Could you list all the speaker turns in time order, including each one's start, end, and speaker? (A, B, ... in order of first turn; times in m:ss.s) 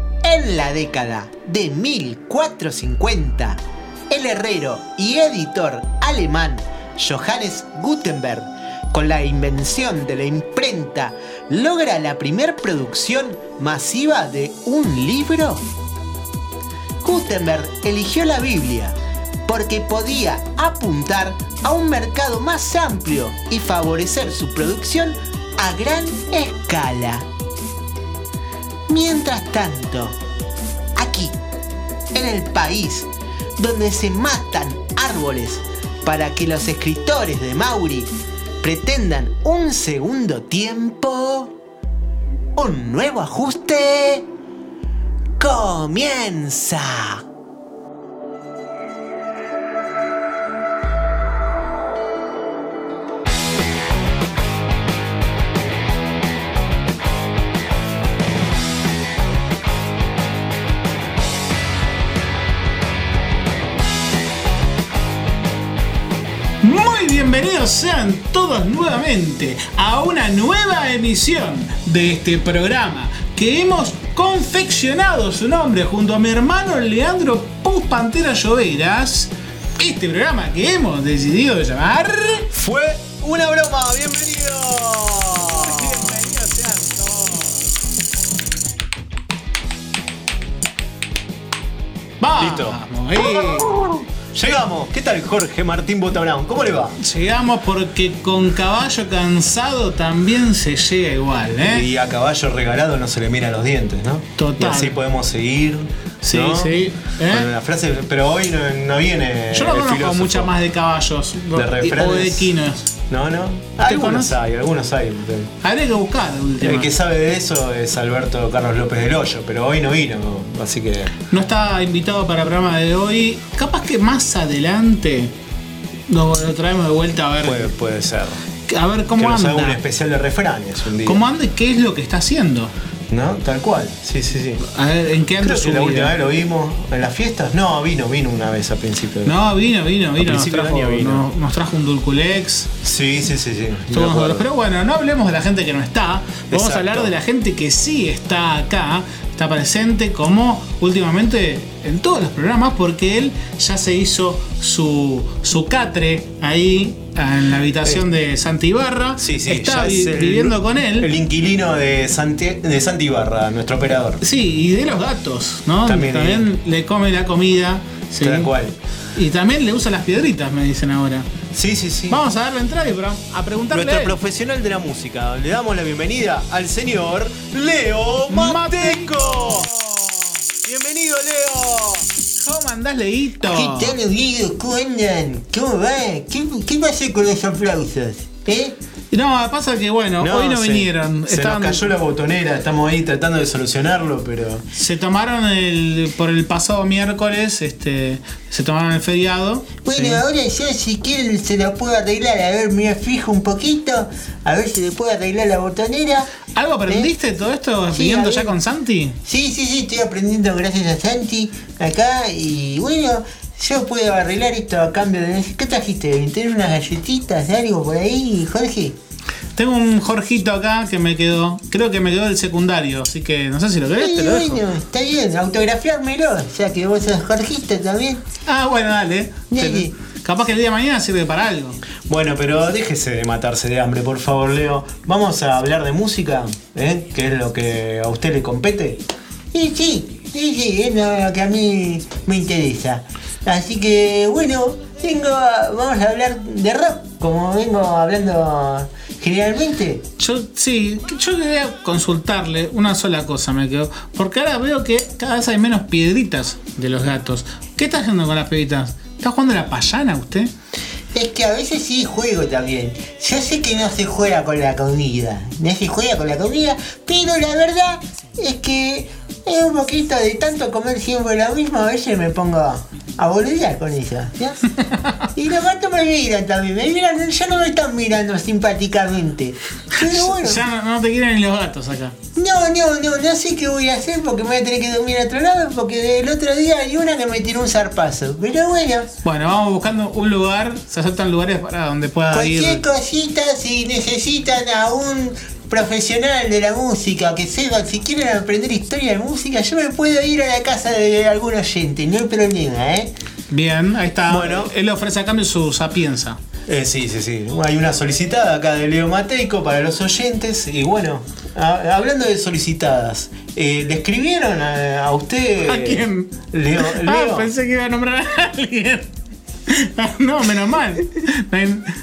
0:00.2-0:15.6 A
0:17.0-0:19.0 A
0:19.4-0:27.3 A
0:28.9-0:30.2 A
0:31.0-0:31.3 A
0:32.1-0:38.1 A
0:38.6-0:41.5 A
0:42.6-0:44.3 A
0:45.4-0:47.2 A
1:06.6-1:22.5 B
1:22.5-1:26.0 C
1:25.8-1:27.0 B
1:32.2-1:33.7 B
1:32.4-1:32.8 C
1:34.2-1:37.0 C
1:37.0-1:41.9 B
1:41.6-1:50.5 C
1:44.4-1:45.0 B
1:46.2-1:47.5 B
1:49.5-1:52.9 B
1:51.5-1:52.5 C
1:53.1-1:55.5 C
1:53.8-1:54.3 B
1:55.6-1:56.9 B
1:56.6-2:01.1 C
2:01.3-2:05.3 B
2:06.1-2:07.7 B
2:07.4-2:08.4 C
2:08.7-2:09.8 B
2:09.1-2:11.2 C
2:11.0-2:12.7 B
2:13.1-2:14.6 C
2:14.7-2:16.1 B
2:15.4-2:19.3 C
2:19.2-2:22.7 B
2:20.2-2:21.2 C
2:22.8-2:24.4 C
2:23.9-2:41.1 B
2:26.5-2:27.1 C
2:39.2-2:44.2 C
2:44.2-2:48.5 B
2:45.8-2:46.5 C
2:48.2-2:48.8 C
2:49.1-2:51.2 B
2:51.5-2:52.2 C
2:52.1-2:54.1 B
2:53.7-3:00.0 C
2:58.3-2:59.7 B
3:00.6-3:02.0 C
3:02.4-3:04.0 B
3:03.4-3:08.8 A
3:09.1-3:11.8 B
3:10.2-3:14.6 C
3:14.7-3:20.2 B
3:19.8-3:26.3 A
3:26.5-3:29.2 B
3:27.9-3:28.6 A
3:29.2-3:39.0 A
3:39.6-3:44.6 B
3:44.0-3:48.2 A
3:48.4-3:51.8 B
3:49.5-3:49.9 A
3:52.1-3:59.0 C
3:59.5-4:10.0 A
4:10.2-4:20.5 B
4:21.1-4:34.6 A
4:35.4-4:40.6 A
4:40.0-4:42.2 B
4:42.4-4:49.1 A
4:49.2-4:52.8 B
4:52.3-5:03.1 A
5:03.5-5:06.4 B
5:04.3-5:04.7 C
5:06.7-5:17.5 C
5:15.7-5:19.1 B
5:19.7-5:21.9 B